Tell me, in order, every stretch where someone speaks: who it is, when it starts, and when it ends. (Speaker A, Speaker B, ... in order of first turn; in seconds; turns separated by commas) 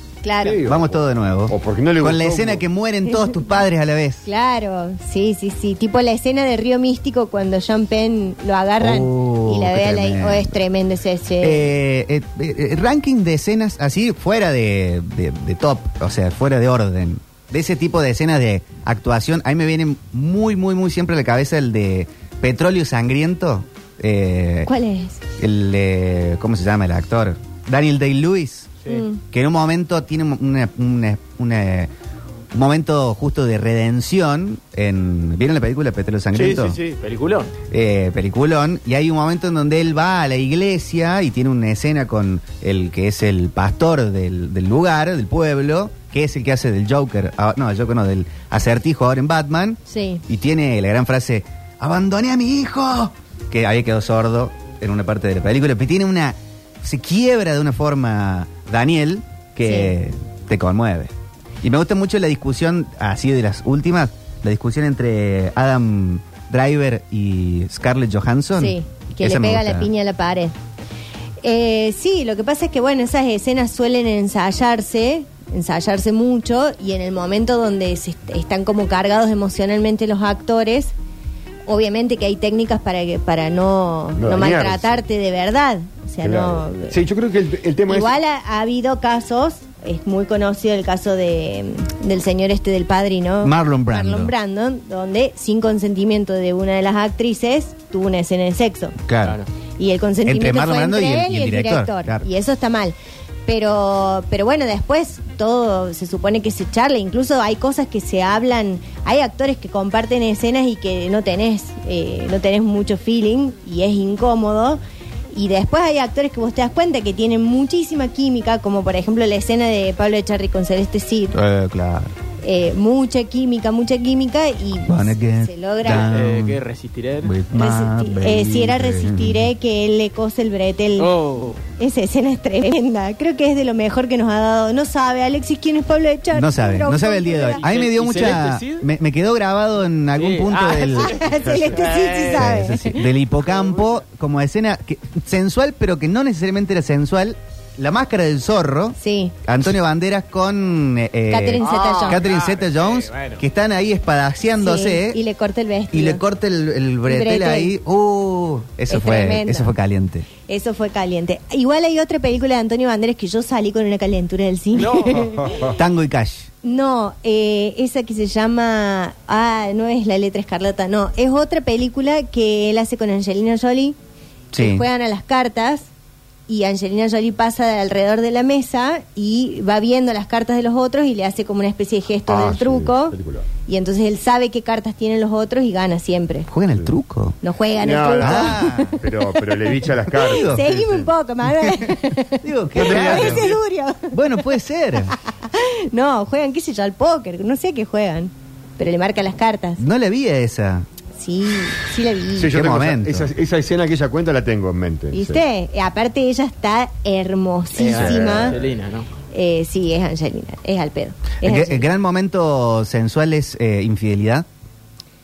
Speaker A: 0.2-0.6, Speaker B: 0.4-2.6, Speaker C: 0.6-4.2, Speaker A: 3.1-3.4, Speaker A: 4.2-11.7, Speaker C: 8.8-10.6, Speaker C: 11.4-24.7, Speaker A: 24.6-25.2, Speaker C: 25.4-28.7, Speaker A: 28.9-29.2, Speaker C: 29.3-31.9, Speaker C: 32.5-36.8, Speaker D: 36.3-37.5, Speaker C: 37.7-69.9, Speaker A: 49.9-50.2, Speaker A: 59.6-59.9, Speaker A: 68.5-70.5, Speaker A: 71.4-80.9, Speaker A: 81.7-87.0, Speaker B: 84.2-85.0, Speaker B: 86.2-88.1, Speaker A: 87.9-98.9, Speaker C: 93.4-94.3, Speaker C: 99.0-99.4, Speaker A: 99.8-102.9, Speaker C: 100.2-102.3, Speaker A: 103.5-114.8, Speaker A: 115.3-121.3, Speaker C: 121.3-122.1, Speaker A: 122.4-126.1, Speaker C: 124.9-126.6, Speaker D: 125.8-127.3, Speaker C: 127.2-129.5, Speaker A: 127.5-131.1, Speaker D: 131.0-131.6, Speaker A: 131.8-137.6, Speaker C: 136.3-141.2, Speaker D: 137.6-138.9, Speaker D: 140.1-142.4, Speaker A: 141.0-143.0, Speaker C: 142.3-155.2, Speaker D: 143.4-143.9, Speaker A: 149.0-149.3, Speaker A: 151.3-152.2, Speaker D: 151.6-153.4, Speaker A: 154.6-156.2, Speaker C: 155.9-160.3, Speaker A: 157.1-157.7, Speaker A: 158.9-159.7, Speaker A: 160.5-165.5, Speaker D: 164.7-165.3, Speaker B: 165.4-165.8, Speaker C: 165.8-166.5, Speaker A: 166.6-173.9, Speaker C: 174.5-174.8, Speaker A: 174.6-175.9, Speaker A: 176.5-186.5, Speaker B: 182.3-183.4, Speaker C: 186.5-187.4, Speaker A: 187.4-189.0, Speaker B: 187.8-191.0, Speaker C: 188.2-189.0, Speaker C: 190.1-190.8, Speaker A: 190.3-194.1, Speaker C: 191.5-191.9, Speaker C: 192.4-193.5, Speaker B: 192.8-193.4, Speaker C: 194.1-195.2, Speaker A: 195.3-199.8, Speaker C: 199.8-200.9, Speaker A: 201.2-202.5, Speaker B: 202.3-205.4, Speaker C: 202.5-203.3, Speaker A: 205.1-208.6, Speaker D: 207.8-209.1, Speaker B: 208.0-208.6, Speaker A: 209.3-211.8, Speaker C: 211.4-214.4